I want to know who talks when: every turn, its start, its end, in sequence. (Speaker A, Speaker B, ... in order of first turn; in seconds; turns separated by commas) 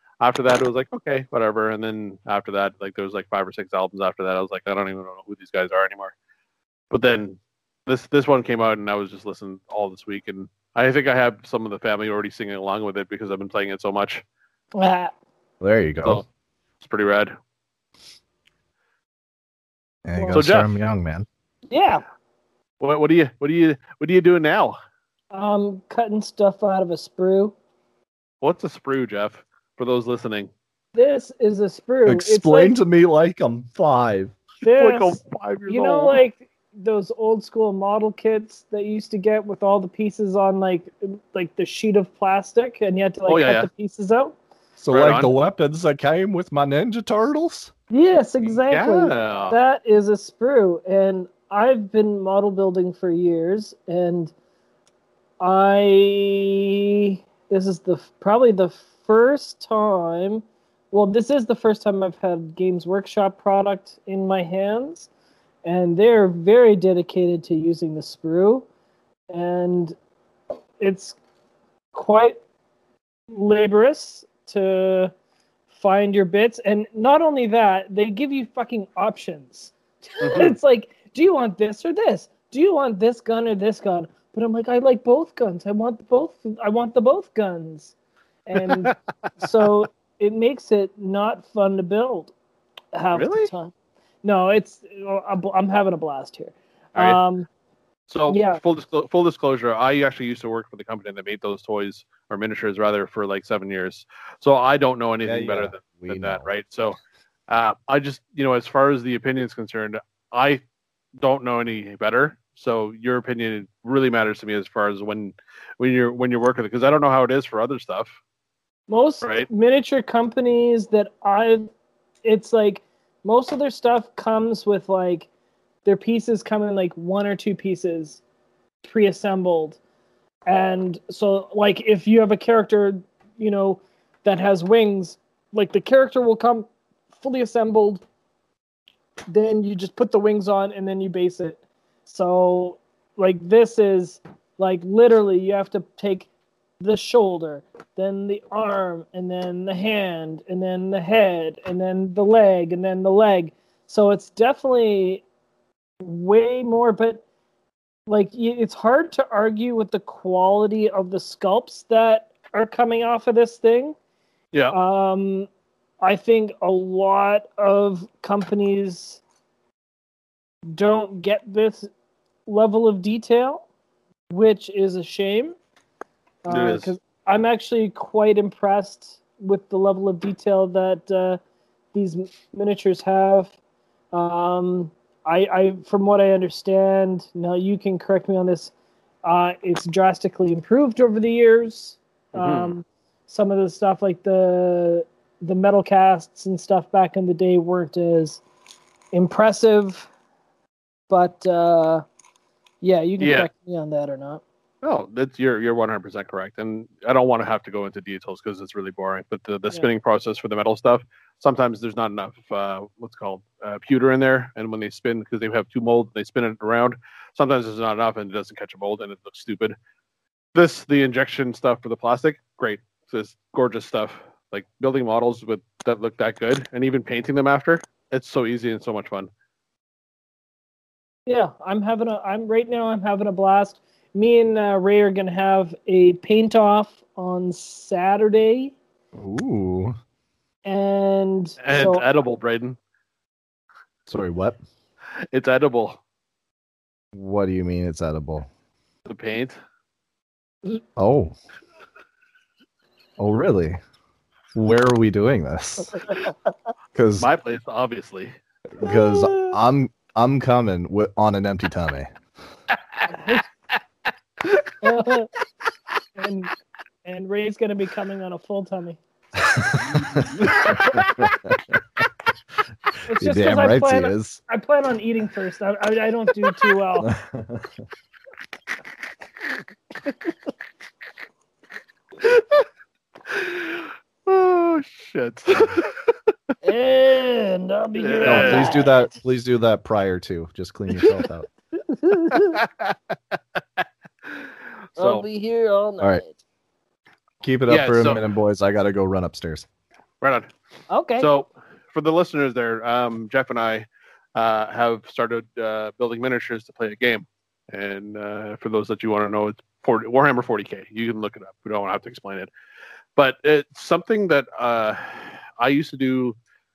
Speaker A: 0.2-6.1, Speaker A: 6.9-14.2, Speaker B: 14.7-15.1, Speaker C: 15.6-16.2, Speaker A: 16.8-17.3, Speaker C: 20.0-21.3, Speaker B: 20.1-20.4, Speaker A: 20.3-20.8, Speaker B: 21.7-22.0, Speaker A: 22.8-24.8, Speaker B: 25.3-27.5, Speaker A: 28.4-30.5, Speaker B: 30.9-32.8, Speaker C: 32.0-34.3, Speaker B: 34.6-44.4, Speaker A: 34.7-36.2, Speaker A: 43.3-43.7, Speaker C: 44.8-47.7, Speaker A: 44.9-45.3, Speaker B: 47.9-54.3, Speaker A: 48.6-49.5, Speaker B: 55.4-65.1, Speaker B: 65.6-68.7, Speaker B: 69.3-70.0, Speaker B: 70.8-71.2, Speaker B: 71.9-72.4, Speaker B: 73.3-75.1, Speaker B: 75.7-87.9, Speaker A: 80.2-80.5, Speaker B: 88.5-92.3, Speaker A: 88.7-88.9, Speaker B: 92.9-93.7, Speaker A: 93.1-93.5, Speaker B: 94.2-97.5, Speaker A: 98.1-107.0, Speaker B: 98.3-98.6, Speaker C: 105.2-106.5, Speaker A: 107.5-110.6, Speaker A: 111.2-118.1, Speaker B: 118.9-121.7, Speaker A: 119.2-119.5, Speaker B: 122.2-125.3, Speaker B: 125.8-128.2, Speaker B: 128.8-129.8, Speaker B: 130.5-136.7, Speaker B: 137.2-138.0, Speaker B: 139.3-146.3, Speaker B: 146.8-155.2, Speaker B: 156.0-157.2, Speaker B: 158.1-163.9, Speaker B: 164.7-165.5, Speaker B: 166.0-169.2, Speaker B: 170.7-171.9, Speaker B: 172.4-173.7, Speaker B: 174.3-175.6, Speaker B: 176.4-181.4, Speaker A: 176.5-176.9, Speaker B: 181.9-183.5, Speaker B: 184.1-188.7, Speaker B: 189.2-198.4, Speaker A: 192.3-192.7, Speaker B: 199.1-200.1, Speaker B: 201.1-202.0, Speaker B: 202.8-204.4, Speaker A: 203.2-203.5, Speaker A: 204.8-219.8, Speaker A: 220.5-229.3, Speaker B: 231.2-238.7, Speaker C: 239.1-239.9, Speaker B: 240.6-242.0, Speaker A: 241.6-242.8, Speaker C: 244.1-244.6, Speaker A: 245.3-246.0, Speaker C: 247.1-248.5, Speaker A: 249.1-249.6, Speaker C: 250.9-251.3, Speaker C: 253.2-253.8, Speaker C: 254.5-256.0, Speaker C: 256.9-257.3, Speaker A: 257.2-258.3, Speaker C: 258.8-262.1, Speaker B: 258.9-259.5, Speaker B: 263.1-263.4, Speaker B: 264.8-265.3, Speaker B: 266.2-266.5, Speaker B: 267.0-269.0, Speaker C: 269.5-271.6, Speaker A: 270.4-271.3, Speaker B: 273.1-277.1, Speaker C: 273.2-274.4, Speaker C: 277.0-277.7, Speaker A: 282.2-282.6, Speaker A: 283.3-286.1, Speaker B: 286.6-289.1, Speaker A: 288.0-288.9, Speaker C: 288.2-291.5, Speaker B: 291.8-292.6, Speaker A: 292.4-292.9, Speaker A: 294.3-295.2, Speaker B: 295.0-296.4, Speaker C: 297.4-299.6, Speaker A: 297.7-298.2, Speaker A: 300.2-300.5, Speaker B: 300.9-301.3, Speaker A: 301.2-312.5, Speaker A: 313.1-316.4